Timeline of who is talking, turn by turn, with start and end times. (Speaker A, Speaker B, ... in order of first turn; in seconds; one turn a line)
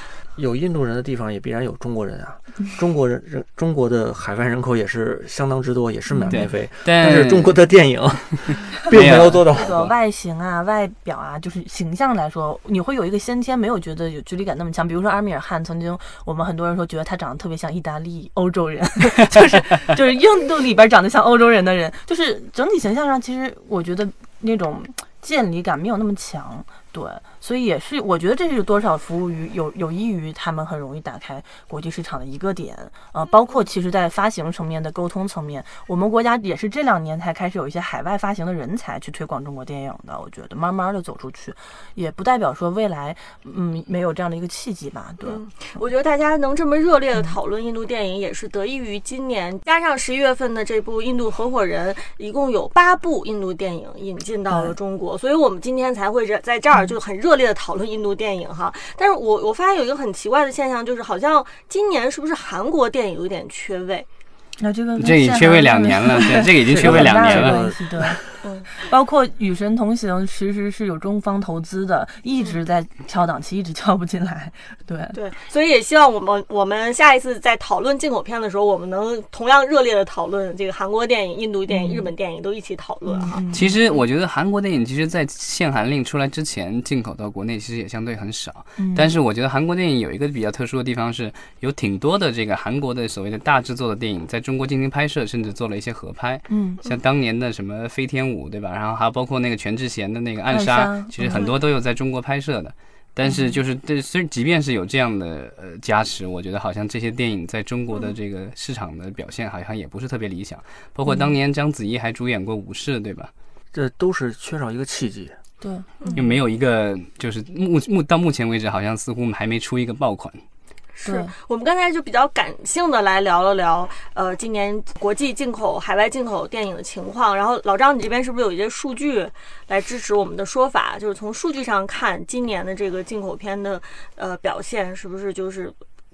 Speaker A: 0.3-9.8
Speaker B: 6.1-6.5
Speaker C: 6.3-7.6
Speaker C: 8.5-9.9
Speaker B: 9.5-45.4
Speaker D: 33.2-33.6
Speaker D: 45.2-64.1
Speaker B: 54.5-54.7
Speaker B: 64.6-68.2
Speaker C: 65.0-67.6
Speaker A: 66.6-68.3
Speaker D: 68.4-68.7
Speaker B: 68.7-75.2
Speaker D: 75.1-83.5
Speaker B: 81.7-82.1
Speaker B: 83.0-83.8
Speaker C: 83.5-113.3
Speaker B: 88.8-89.1
Speaker B: 96.5-96.8
Speaker B: 100.5-101.5
Speaker D: 101.3-101.6
Speaker B: 103.2-103.6
Speaker B: 111.1-111.3
Speaker A: 113.7-115.4
Speaker B: 115.6-116.2
Speaker C: 116.1-120.4
Speaker D: 120.9-135.7
Speaker B: 121.0-121.3